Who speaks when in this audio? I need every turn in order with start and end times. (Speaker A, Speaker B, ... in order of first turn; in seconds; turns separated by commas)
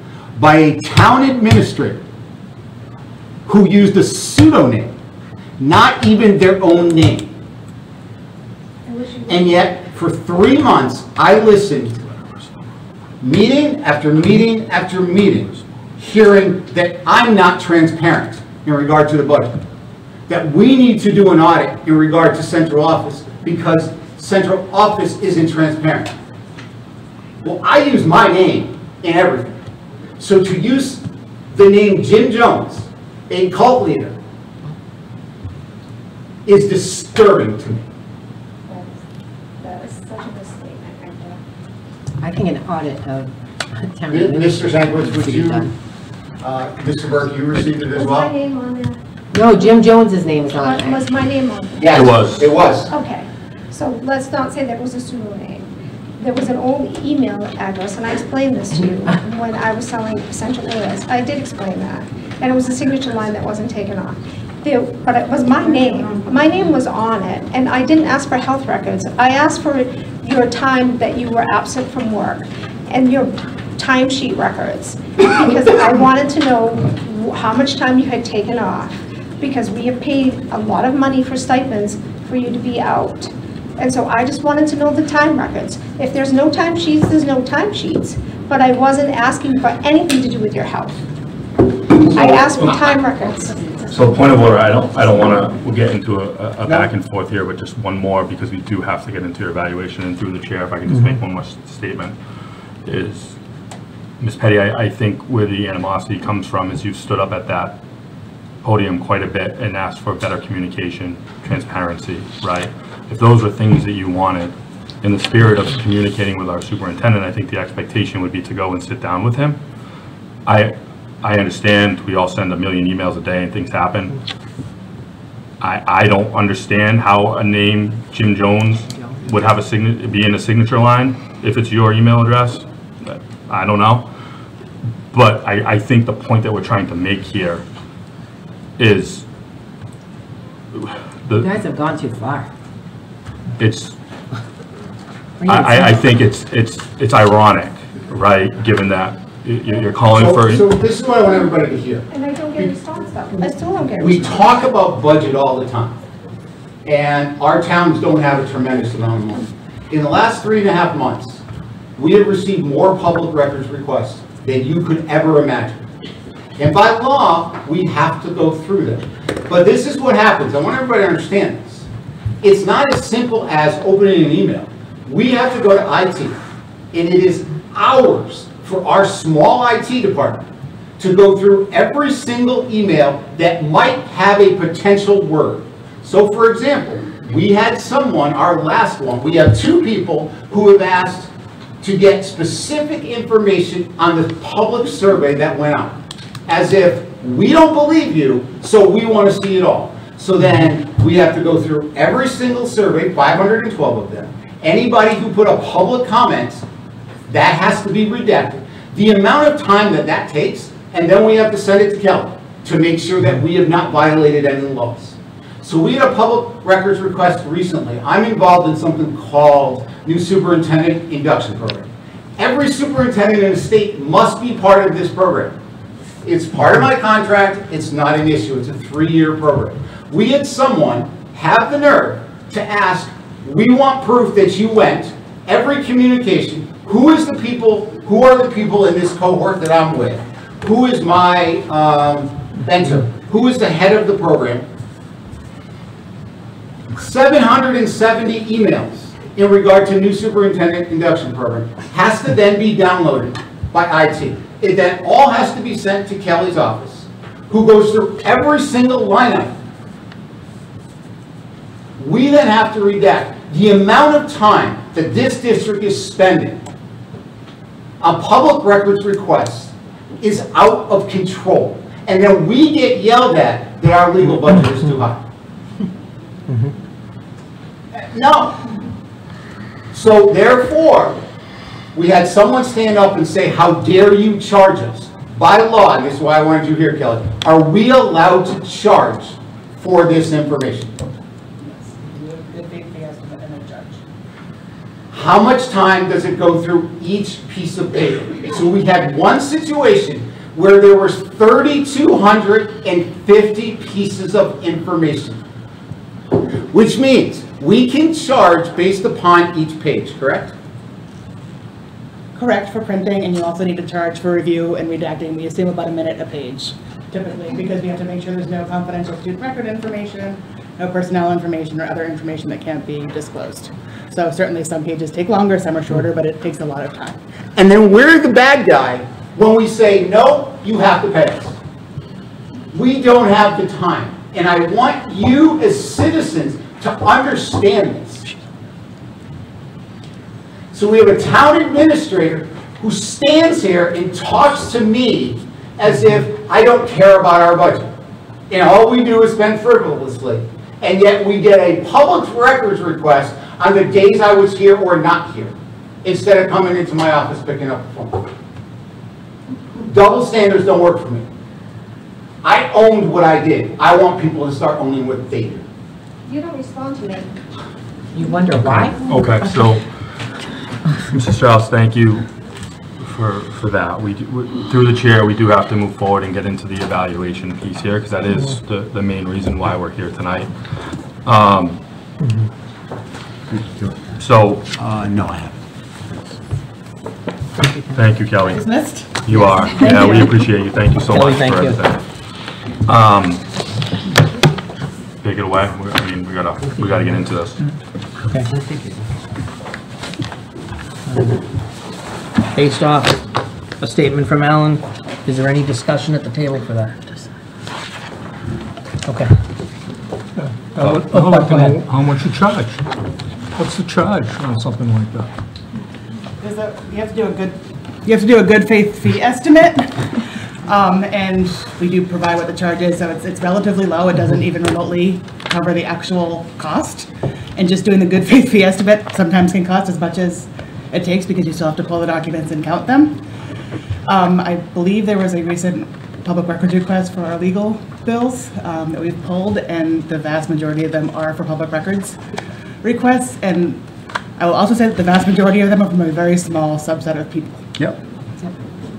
Speaker A: 0.3-2.0, Speaker A: 3.5-4.9, Speaker A: 5.6-7.3, Speaker B: 8.9-9.3, Speaker A: 9.3-12.0, Speaker A: 13.2-19.6, Speaker A: 20.3-26.2, Speaker A: 27.4-29.5, Speaker A: 30.2-34.2, Speaker A: 36.5-37.8, Speaker B: 39.6-41.4, Speaker C: 42.2-45.7, Speaker A: 44.1-45.7, Speaker A: 46.4-48.3, Speaker B: 47.8-49.0, Speaker C: 49.3-51.0, Speaker B: 49.5-49.8, Speaker B: 50.5-52.0, Speaker A: 51.8-52.9, Speaker D: 51.9-52.5, Speaker B: 52.9-90.9, Speaker C: 58.7-59.2, Speaker B: 92.0-94.4, Speaker D: 92.1-92.9, Speaker D: 93.9-102.2, Speaker E: 100.9-101.2, Speaker D: 102.8-103.4, Speaker D: 104.2-107.8, Speaker D: 108.6-119.6, Speaker D: 120.5-124.2, Speaker D: 125.6-134.1, Speaker C: 128.9-129.3, Speaker D: 135.1-137.6, Speaker D: 138.8-139.2, Speaker D: 140.8-141.5, Speaker C: 141.3-142.5, Speaker D: 143.6-143.9, Speaker C: 145.4-146.0, Speaker D: 145.4-150.7, Speaker A: 150.1-152.1, Speaker B: 152.1-154.7, Speaker A: 154.0-156.0, Speaker A: 156.8-161.4, Speaker A: 162.0-165.8, Speaker A: 166.6-171.8, Speaker A: 172.4-176.4, Speaker A: 176.9-180.4, Speaker A: 181.0-206.6, Speaker A: 207.3-225.6, Speaker A: 226.2-244.7, Speaker A: 246.9-259.6, Speaker A: 262.0-266.6, Speaker A: 268.0-275.2, Speaker E: 276.5-276.7, Speaker A: 277.9-278.6, Speaker A: 279.9-281.2, Speaker A: 281.9-291.0, Speaker F: 291.6-294.0, Speaker A: 295.1-305.4, Speaker A: 306.7-310.5, Speaker F: 312.3-327.2, Speaker A: 327.6-331.6, Speaker A: 332.7-338.3, Speaker A: 340.7-347.9, Speaker A: 348.5-358.3, Speaker A: 359.8-361.2, Speaker A: 362.4-365.6, Speaker B: 366.2-367.3, Speaker C: 368.1-369.0, Speaker D: 369.1-369.9, Speaker D: 371.1-372.3, Speaker D: 373.0-380.5, Speaker D: 381.2-381.8, Speaker E: 382.2-382.5, Speaker A: 383.5-384.1, Speaker D: 384.2-384.7, Speaker A: 384.8-385.6, Speaker D: 387.9-388.6, Speaker F: 388.5-389.2, Speaker D: 389.2-392.0, Speaker C: 389.3-390.2, Speaker E: 391.1-391.8, Speaker D: 392.8-393.4, Speaker D: 395.2-397.6, Speaker C: 396.8-397.0, Speaker C: 398.5-399.1, Speaker E: 401.1-401.4, Speaker E: 402.5-407.2, Speaker E: 409.0-409.3, Speaker G: 410.7-412.8, Speaker E: 410.8-411.8, Speaker G: 413.5-415.3, Speaker F: 416.4-433.2, Speaker F: 434.1-442.2, Speaker F: 442.8-443.8, Speaker F: 444.4-447.6